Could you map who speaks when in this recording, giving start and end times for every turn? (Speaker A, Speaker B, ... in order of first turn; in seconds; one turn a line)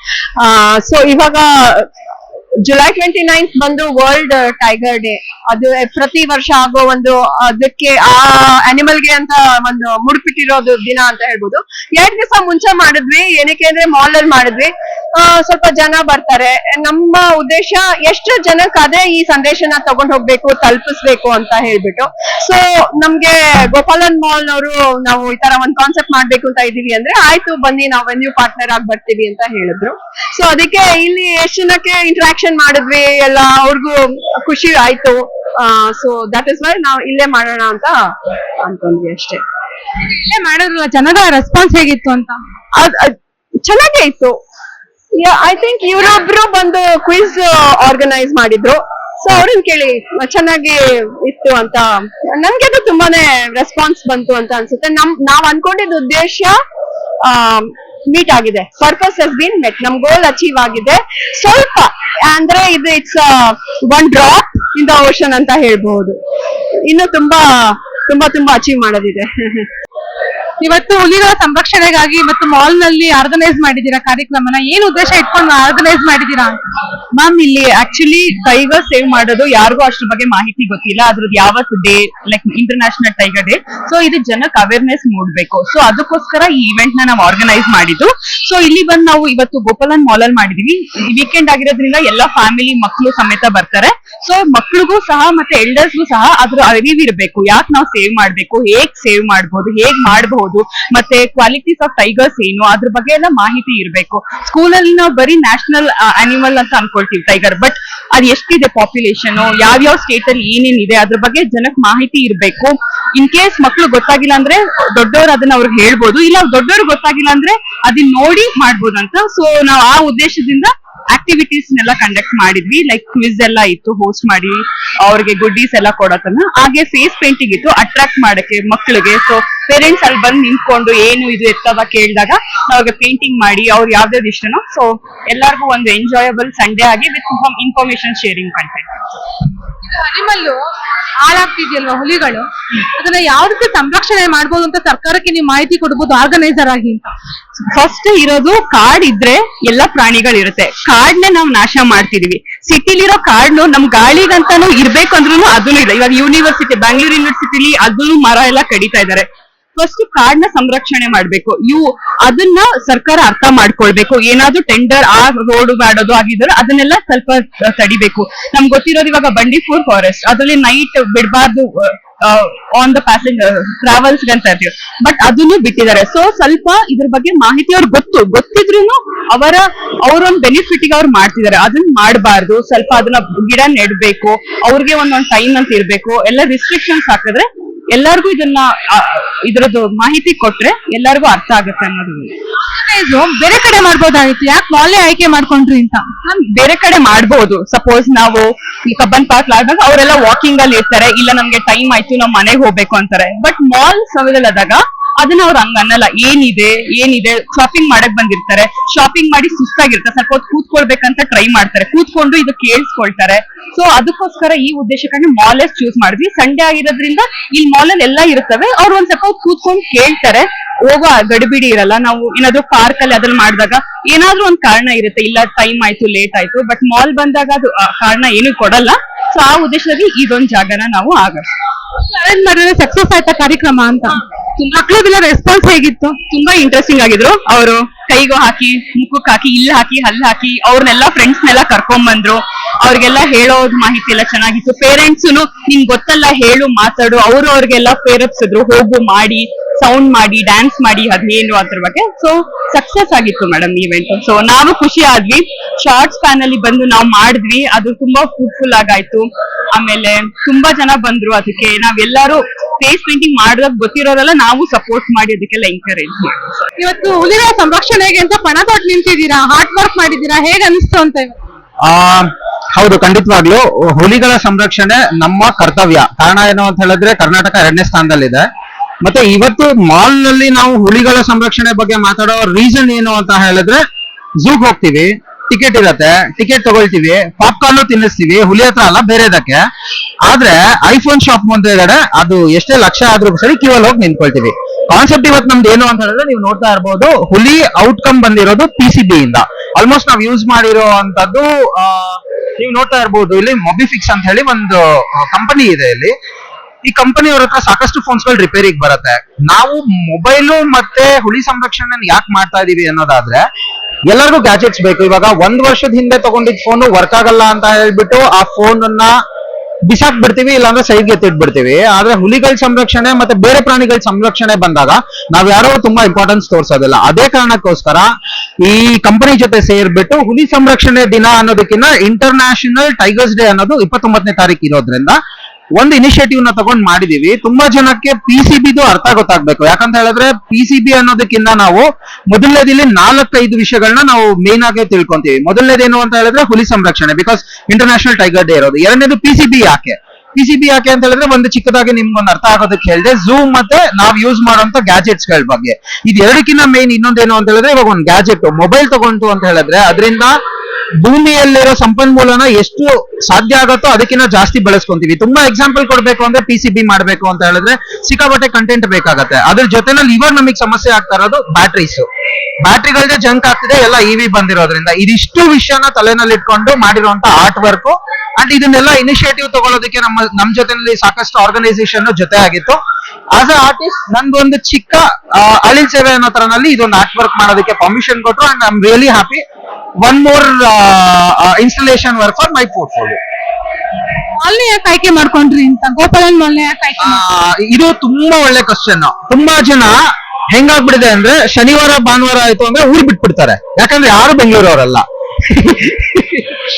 Speaker A: 0.4-1.9
Speaker A: 2.6-38.0
Speaker A: 38.6-39.4
Speaker B: 40.1-42.4
Speaker A: 42.8-44.4
Speaker A: 45.2-56.5
Speaker A: 57.2-66.2
Speaker A: 66.9-69.7
Speaker B: 70.6-76.6
Speaker C: 77.1-138.9
Speaker B: 139.9-140.6
Speaker B: 141.2-147.1
Speaker C: 147.7-192.3
Speaker B: 192.7-196.1
Speaker C: 196.2-231.5
Speaker B: 232.0-236.2
Speaker C: 236.3-266.6
Speaker B: 266.8-271.4
Speaker D: 271.9-278.5
Speaker D: 279.0-283.8
Speaker D: 284.4-289.6
Speaker D: 290.3-306.1
Speaker D: 306.8-313.5
Speaker D: 314.1-319.1
Speaker D: 319.9-328.1
Speaker D: 328.6-335.2
Speaker D: 335.8-360.3
Speaker D: 361.0-372.1
Speaker D: 372.6-382.8
Speaker D: 383.3-389.4
Speaker D: 390.0-393.2
Speaker B: 394.4-397.2
Speaker D: 397.0-400.0
Speaker D: 400.5-406.6